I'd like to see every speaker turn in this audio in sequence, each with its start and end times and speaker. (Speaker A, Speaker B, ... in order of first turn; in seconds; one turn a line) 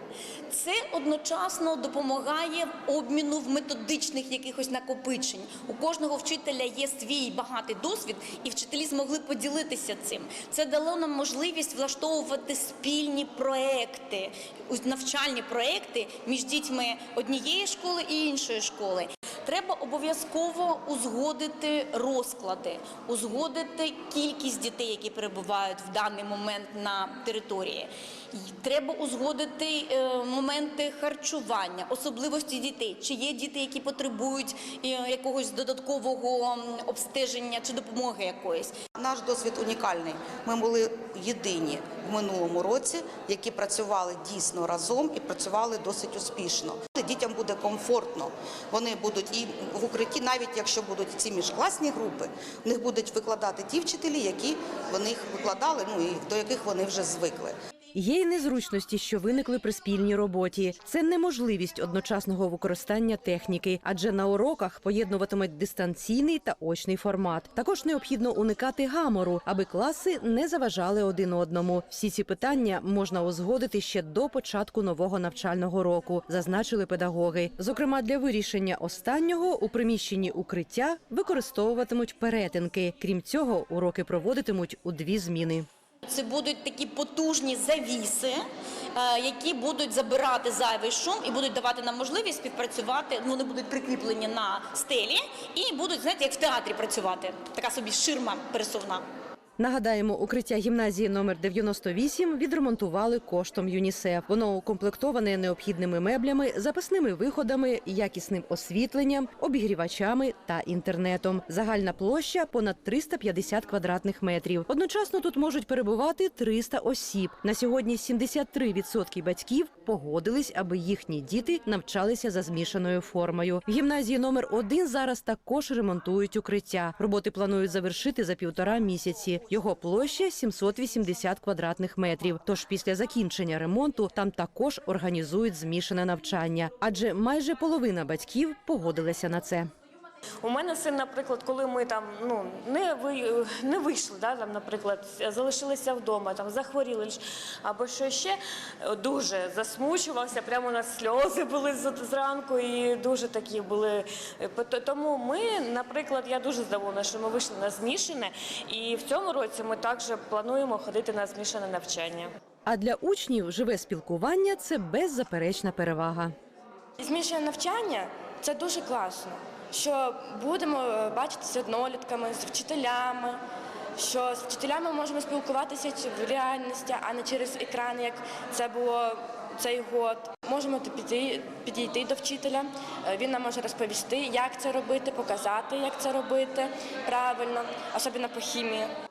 Speaker A: 0.5-38.7
Speaker B: 38.9-57.5
Speaker C: 57.9-85.7
Speaker A: 86.1-99.0
Speaker C: 99.6-139.7
Speaker D: 140.4-162.3
Speaker C: 162.7-166.3
Speaker E: 167.0-173.4
Speaker E: 174.0-188.9